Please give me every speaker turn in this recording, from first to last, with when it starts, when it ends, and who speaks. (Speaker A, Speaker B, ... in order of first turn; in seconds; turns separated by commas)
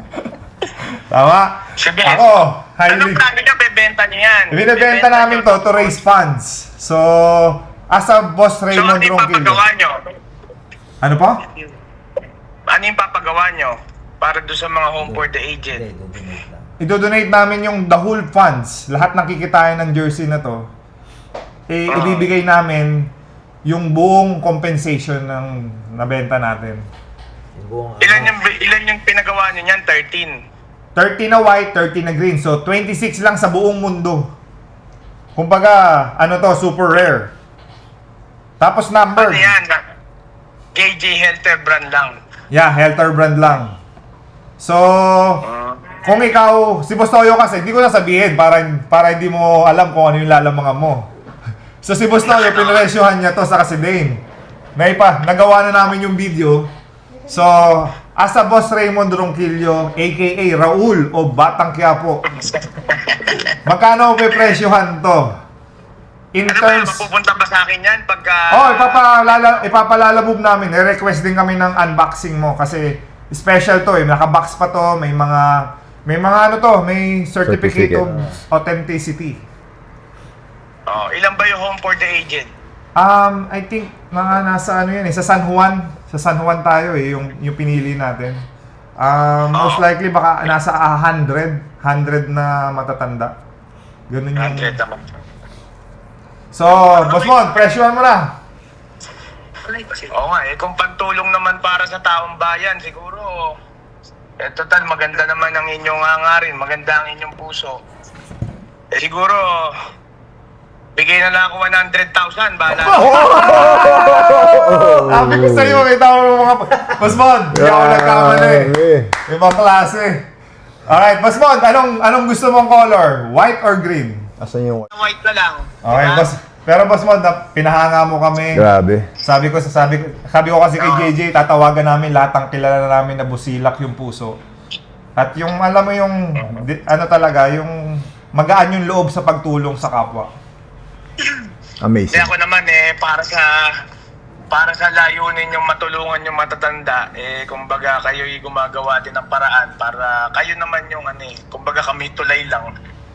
Speaker A: 0.8-3.2, Speaker B: 1.8-6.0, Speaker A: 4.5-9.6, Speaker B: 8.7-10.1, Speaker A: 11.0-11.4, Speaker B: 12.7-15.8, Speaker C: 15.0-16.7, Speaker A: 16.8-20.6, Speaker A: 21.7-23.1, Speaker B: 21.9-22.3, Speaker A: 23.6-26.8, Speaker C: 27.6-28.4, Speaker B: 28.0-30.3, Speaker A: 30.9-34.3, Speaker A: 35.4-37.3, Speaker A: 38.6-39.5, Speaker B: 39.1-39.8, Speaker B: 40.7-42.1, Speaker A: 42.5-43.8, Speaker A: 44.6-51.1, Speaker B: 45.4-46.0, Speaker A: 51.8-54.2, Speaker B: 52.2-52.9, Speaker A: 54.8-56.7, Speaker A: 57.3-62.3, Speaker B: 62.5-63.5, Speaker A: 63.6-65.3, Speaker A: 66.3-67.1, Speaker B: 66.5-69.7, Speaker A: 68.5-79.4, Speaker D: 77.4-78.1, Speaker C: 78.0-78.3, Speaker B: 80.9-82.5, Speaker A: 83.0-88.4, Speaker A: 89.0-93.3, Speaker B: 89.5-89.8, Speaker A: 94.1-94.7, Speaker B: 94.3-95.0, Speaker A: 96.5-98.3, Speaker B: 96.7-97.5, Speaker B: 99.6-103.5, Speaker B: 104.4-107.8, Speaker B: 108.9-109.7, Speaker B: 111.0-113.9, Speaker A: 112.8-118.7, Speaker D: 113.1-115.9, Speaker D: 117.5-119.2, Speaker A: 119.2-120.2, Speaker A: 120.8-124.3, Speaker D: 124.4-124.9, Speaker B: 124.9-126.3, Speaker A: 125.8-128.7, Speaker D: 128.5-129.1, Speaker A: 129.2-134.4, Speaker B: 130.8-131.1, Speaker A: 135.2-140.3, Speaker D: 141.8-142.3, Speaker B: 142.1-143.6, Speaker B: 144.5-152.7